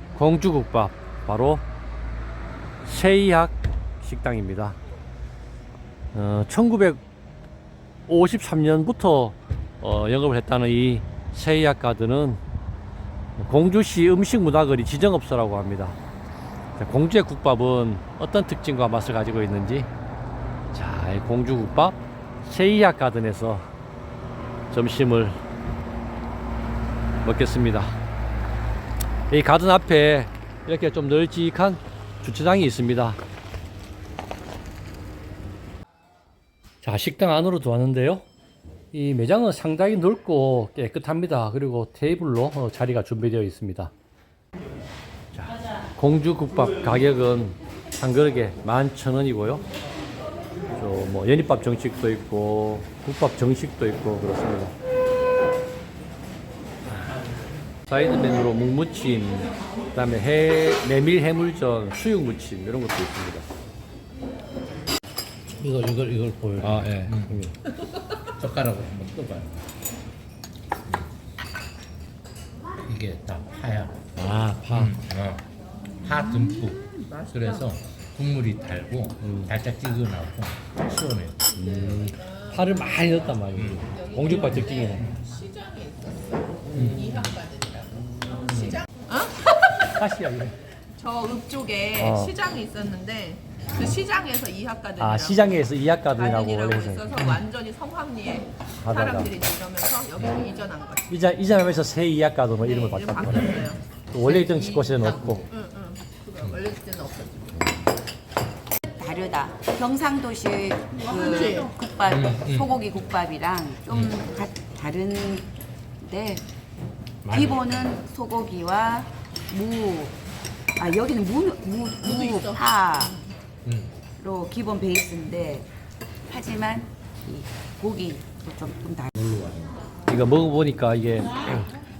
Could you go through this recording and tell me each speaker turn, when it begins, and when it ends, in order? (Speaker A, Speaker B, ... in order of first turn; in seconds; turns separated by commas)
Speaker A: 0.2-1.6, Speaker A: 2.8-4.8, Speaker A: 6.1-7.0, Speaker A: 8.1-12.4, Speaker A: 13.4-16.0, Speaker A: 16.8-19.9, Speaker A: 20.7-23.7, Speaker A: 24.7-25.4, Speaker A: 27.2-27.9, Speaker A: 29.3-33.2, Speaker A: 36.8-38.2, Speaker A: 38.9-43.9, Speaker A: 45.3-49.6, Speaker A: 50.8-54.7, Speaker A: 57.9-63.5, Speaker B: 65.6-67.5, Speaker A: 66.6-67.5, Speaker B: 68.2-69.7, Speaker B: 72.9-74.0, Speaker A: 74.2-75.0, Speaker B: 74.7-75.5, Speaker B: 76.0-81.5, Speaker C: 77.0-77.3, Speaker A: 79.2-79.5, Speaker A: 81.6-85.1, Speaker C: 81.6-83.4, Speaker B: 83.5-85.2, Speaker C: 83.9-89.9, Speaker A: 86.7-87.0, Speaker B: 86.7-87.2, Speaker B: 88.5-88.8, Speaker A: 89.9-90.6, Speaker C: 91.0-95.6, Speaker A: 92.0-92.3, Speaker A: 95.0-97.3, Speaker C: 96.1-101.1, Speaker A: 98.8-99.3, Speaker A: 101.1-105.5, Speaker C: 102.6-104.9, Speaker B: 105.0-105.5, Speaker C: 105.5-107.7, Speaker D: 108.9-116.5, Speaker C: 111.2-111.7, Speaker B: 112.1-112.7, Speaker B: 113.9-114.2, Speaker B: 117.2-117.9, Speaker D: 117.3-120.2, Speaker D: 120.8-123.2, Speaker C: 122.0-123.2, Speaker B: 123.7-124.0, Speaker D: 124.2-125.7, Speaker D: 126.3-129.2, Speaker B: 129.2-129.8, Speaker A: 130.1-131.7